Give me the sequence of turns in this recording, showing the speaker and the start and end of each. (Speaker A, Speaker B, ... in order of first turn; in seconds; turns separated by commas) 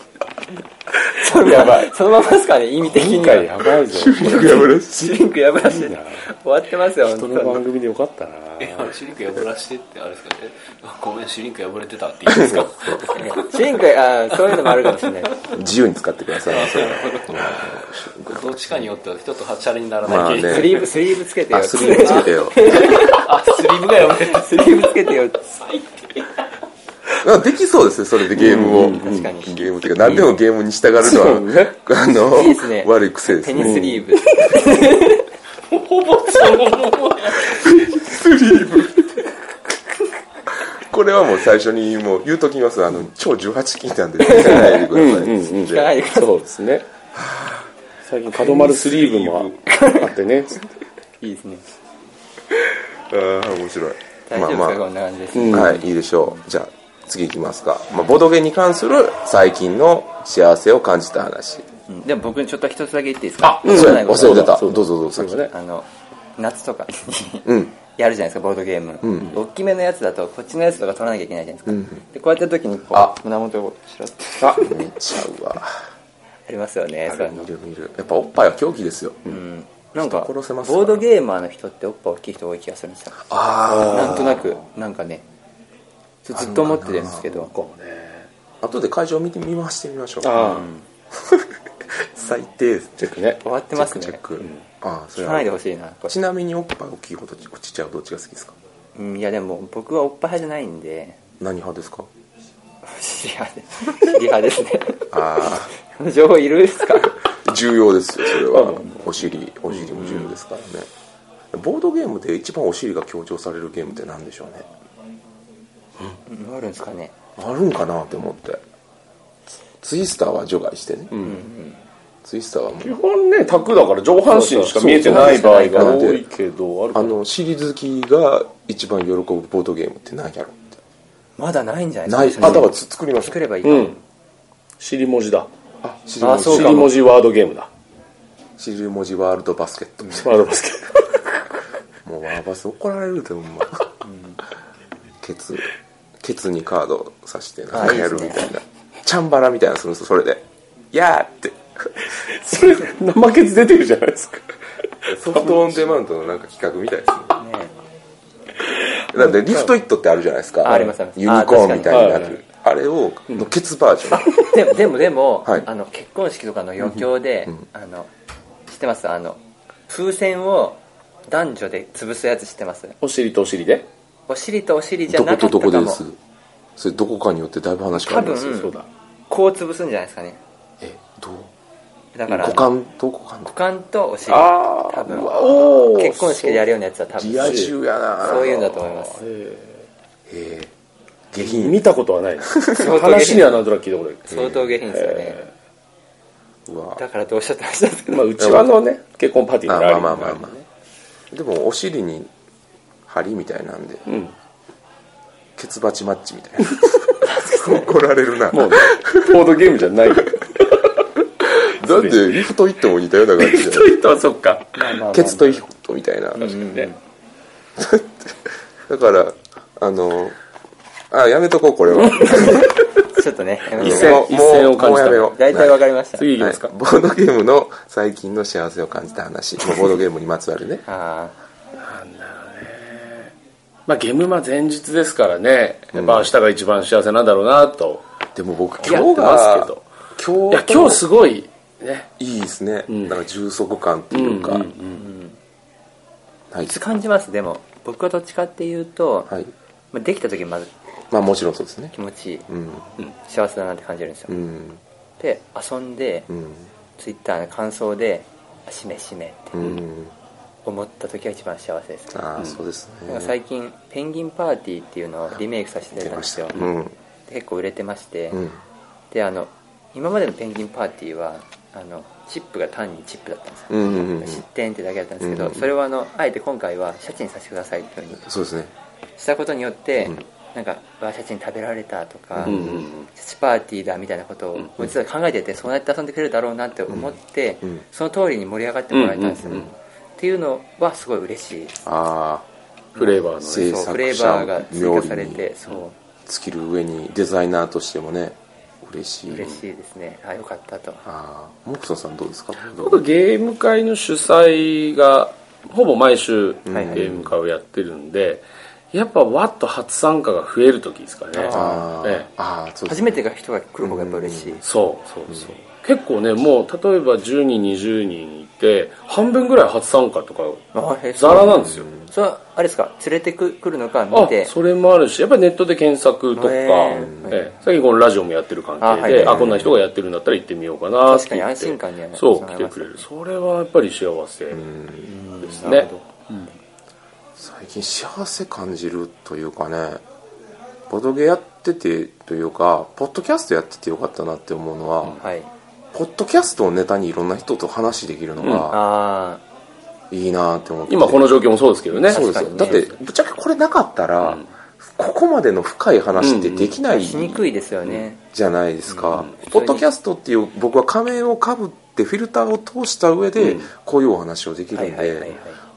Speaker A: 1.1-3.5, Speaker B: 1.4-1.7, Speaker C: 1.5-1.8, Speaker C: 2.8-4.7, Speaker B: 3.9-5.2, Speaker A: 4.2-7.6, Speaker C: 5.6-6.2, Speaker C: 7.0-8.9, Speaker D: 8.6-13.8, Speaker B: 12.3-13.1, Speaker A: 13.1-15.3, Speaker D: 14.3-15.5, Speaker B: 15.5-18.9, Speaker D: 16.4-20.9, Speaker B: 20.0-20.9, Speaker A: 20.4-23.3, Speaker B: 21.5-23.0, Speaker D: 21.9-26.4, Speaker A: 24.2-25.4, Speaker B: 27.2-34.0, Speaker C: 28.3-29.3, Speaker A: 28.8-29.6, Speaker C: 30.0-30.3, Speaker C: 31.0-31.7, Speaker A: 32.3-35.3, Speaker C: 33.5-34.5, Speaker D: 35.6-38.0, Speaker B: 37.5-39.1, Speaker B: 40.6-45.9, Speaker A: 44.2-44.9, Speaker C: 44.3-46.9, Speaker A: 45.7-46.3, Speaker B: 47.1-47.6, Speaker C: 48.0-50.6, Speaker B: 48.5-49.3, Speaker A: 49.6-50.1, Speaker A: 51.2-51.6, Speaker B: 53.1-54.8, Speaker A: 54.3-55.9, Speaker C: 55.3-55.8, Speaker B: 55.5-61.7, Speaker A: 61.9-64.6, Speaker C: 63.4-65.5, Speaker B: 63.4-65.5, Speaker A: 65.5-74.9, Speaker B: 67.4-67.7, Speaker B: 69.0-69.4, Speaker B: 71.7-72.0, Speaker C: 74.4-74.7, Speaker B: 74.5-75.8, Speaker A: 76.5-77.5, Speaker B: 77.1-79.4, Speaker A: 79.3-85.2, Speaker B: 80.0-81.0, Speaker B: 83.3-84.4, Speaker C: 83.6-84.5, Speaker A: 86.2-87.5, Speaker B: 86.3-87.3, Speaker C: 87.1-88.3, Speaker B: 88.6-90.6, Speaker C: 90.2-90.7, Speaker A: 90.3-90.8, Speaker B: 92.0-93.1, Speaker C: 93.0-93.4, Speaker A: 93.4-94.2, Speaker B: 93.7-95.5, Speaker A: 95.2-96.2, Speaker B: 96.1-98.5, Speaker A: 98.9-101.2, Speaker B: 101.4-102.1, Speaker A: 102.8-107.2, Speaker B: 105.1-105.7, Speaker B: 107.3-110.9, Speaker C: 108.5-109.0, Speaker B: 111.5-114.7, Speaker A: 116.3-117.1, Speaker B: 117.4-118.6, Speaker B: 119.8-121.2, Speaker C: 121.1-121.4, Speaker A: 121.2-121.8, Speaker B: 122.2-123.0, Speaker C: 122.8-127.2, Speaker A: 124.3-126.1, Speaker B: 124.8-126.2, Speaker B: 126.9-130.8, Speaker A: 131.4-134.0, Speaker B: 132.1-133.4, Speaker C: 132.4-132.6, Speaker C: 133.6-134.0, Speaker C: 134.8-135.5, Speaker B: 135.8-136.9, Speaker A: 136.2-136.9, Speaker C: 136.2-137.7, Speaker B: 138.6-140.4, Speaker C: 140.1-141.4, Speaker B: 142.0-143.9, Speaker A: 144.0-144.4, Speaker B: 145.2-152.6, Speaker A: 147.7-148.5, Speaker C: 152.2-155.7, Speaker B: 155.1-157.4, Speaker A: 157.4-157.7, Speaker B: 159.1-164.4, Speaker A: 160.6-162.3, Speaker C: 161.8-162.4, Speaker A: 164.2-168.1, Speaker A: 168.7-173.0, Speaker C: 173.0-173.9, Speaker A: 174.3-176.0, Speaker B: 175.1-176.2, Speaker B: 176.8-178.6, Speaker A: 177.9-180.4, Speaker C: 178.3-178.8, Speaker B: 180.8-181.5, Speaker A: 182.1-182.7, Speaker B: 182.3-183.5, Speaker A: 183.5-189.2, Speaker B: 184.3-186.6, Speaker C: 185.1-186.6, Speaker B: 187.1-188.9, Speaker C: 187.4-187.7, Speaker C: 188.3-189.8, Speaker B: 190.3-190.7, Speaker B: 191.3-191.8, Speaker C: 191.4-195.5, Speaker B: 192.5-192.8, Speaker A: 192.7-193.6, Speaker A: 194.3-195.4, Speaker B: 194.3-194.7, Speaker B: 196.7-197.0, Speaker A: 197.0-198.6, Speaker C: 198.1-200.4, Speaker B: 198.4-198.7, Speaker B: 199.7-200.5, Speaker A: 200.2-200.6, Speaker B: 201.3-202.3, Speaker B: 203.1-204.1, Speaker C: 204.1-204.3, Speaker B: 205.6-209.4, Speaker A: 207.2-207.9, Speaker C: 208.5-210.9, Speaker B: 211.7-213.9, Speaker C: 211.8-212.5, Speaker C: 213.4-214.9, Speaker A: 214.8-215.6, Speaker B: 215.1-216.6, Speaker A: 216.3-217.0, Speaker C: 216.6-216.9, Speaker B: 217.8-220.4, Speaker B: 221.1-222.7, Speaker C: 222.0-222.8, Speaker A: 222.2-224.3, Speaker B: 223.8-225.8, Speaker C: 223.8-225.4, Speaker A: 225.3-226.3, Speaker C: 226.2-226.7, Speaker B: 226.3-230.8, Speaker A: 230.8-231.3, Speaker C: 231.8-233.3, Speaker C: 233.9-238.0, Speaker B: 235.9-236.3, Speaker B: 238.3-241.0, Speaker C: 238.8-239.8, Speaker C: 240.5-242.1, Speaker B: 242.2-244.7, Speaker C: 242.9-243.2, Speaker C: 244.1-245.0, Speaker A: 244.9-245.4, Speaker B: 246.5-246.8, Speaker A: 246.7-249.3, Speaker A: 249.9-250.7, Speaker B: 251.1-251.9, Speaker A: 251.9-252.5, Speaker B: 252.5-252.8, Speaker A: 253.2-254.4, Speaker B: 254.3-254.8, Speaker A: 255.2-256.3, Speaker B: 256.3-256.7, Speaker A: 257.0-259.6, Speaker B: 259.5-260.1, Speaker A: 260.6-262.2, Speaker B: 262.1-263.3, Speaker A: 263.1-266.6, Speaker B: 265.9-266.9, Speaker A: 267.3-268.4, Speaker A: 269.1-278.2, Speaker B: 273.7-274.4, Speaker B: 275.2-275.7, Speaker B: 278.2-278.7, Speaker A: 279.2-291.8, Speaker B: 282.3-282.9, Speaker C: 282.4-283.1, Speaker B: 286.9-287.8, Speaker C: 288.9-289.6, Speaker B: 289.4-289.7, Speaker B: 291.8-292.4, Speaker C: 292.9-293.8, Speaker A: 292.9-295.9, Speaker B: 293.4-295.5, Speaker B: 296.2-299.5, Speaker A: 299.3-301.0, Speaker B: 301.0-303.0, Speaker C: 302.7-312.3, Speaker B: 306.6-307.4, Speaker A: 306.7-307.0, Speaker A: 311.3-311.9, Speaker B: 311.5-313.2, Speaker A: 312.9-314.6, Speaker B: 313.8-314.6, Speaker C: 314.6-321.9, Speaker A: 320.7-324.5, Speaker B: 321.4-322.1, Speaker C: 324.1-334.6, Speaker A: 326.3-327.5, Speaker B: 326.9-327.4, Speaker A: 328.8-329.6, Speaker B: 329.1-329.8, Speaker A: 331.0-333.1, Speaker B: 334.5-335.7, Speaker A: 335.0-336.5, Speaker C: 335.6-336.5, Speaker B: 337.4-340.0, Speaker B: 340.9-345.2, Speaker A: 345.2-345.5, Speaker B: 345.9-348.8, Speaker C: 348.4-348.7, Speaker A: 348.7-349.4, Speaker B: 350.1-351.3, Speaker C: 350.9-352.8, Speaker B: 351.9-365.4, Speaker A: 352.1-352.9, Speaker C: 354.2-354.5, Speaker C: 356.2-356.8, Speaker A: 356.9-358.2, Speaker A: 358.9-359.9, Speaker C: 363.4-363.7, Speaker A: 364.7-365.6